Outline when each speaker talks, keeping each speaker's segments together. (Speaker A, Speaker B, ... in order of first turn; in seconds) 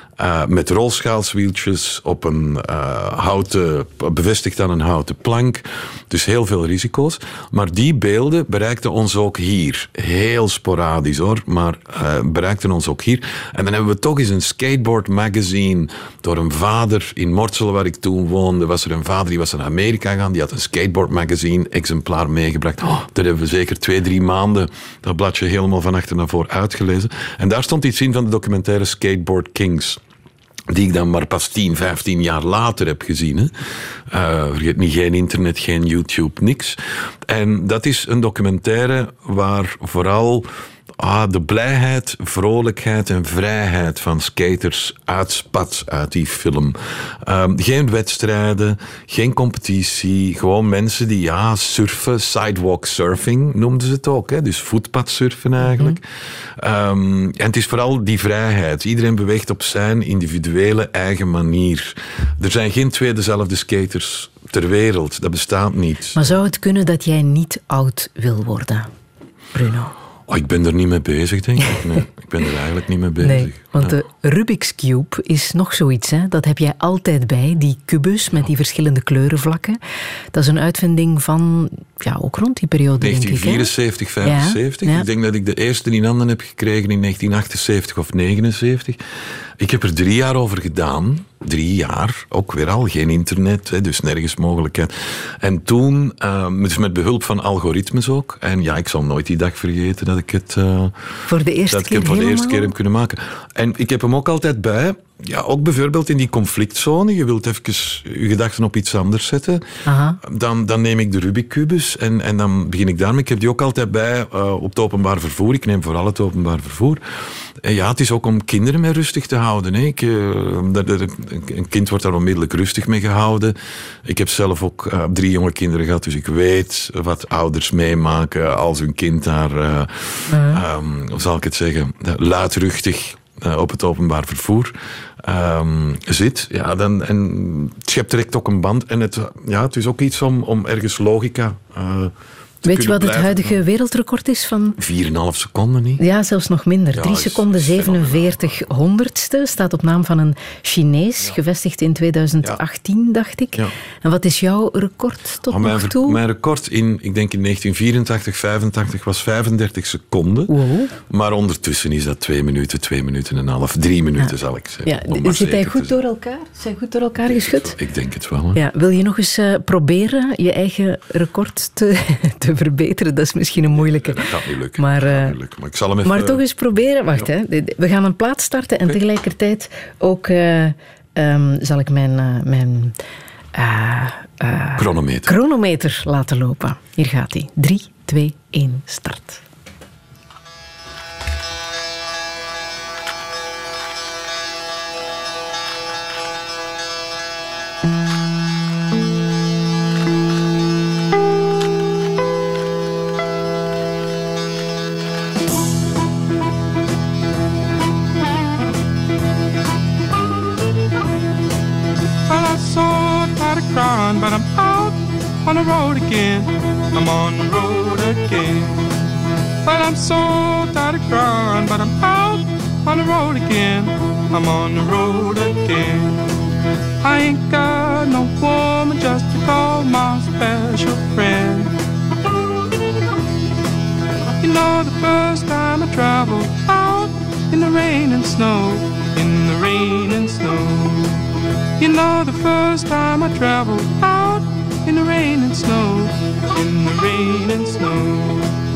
Speaker A: 0.2-30.0, 30.7-33.5, 34.1-56.0, 56.6-66.2, 70.3-74.0, 83.0-89.0, 89.6-101.1, 101.7-109.7, 110.2-117.0, 117.6-143.6, 144.8-146.0, 146.9-148.5, 155.5-160.6, 161.1-166.0, 167.2-168.6, 173.6-176.4, 184.8-185.3
Speaker B: 55.6-56.0, 66.2-68.9, 69.5-69.9, 73.2-79.8, 80.3-83.7, 84.2-85.1, 101.3-102.7, 109.8-110.2, 130.3-130.6, 142.6-144.8, 146.0-156.2, 160.5-160.9, 164.8-167.8, 168.5-174.2, 174.8-175.3, 176.0-183.0, 183.5-189.4
Speaker C: 212.3-218.9, 219.7-226.2, 227.0-231.7, 234.4-241.2, 241.8-248.5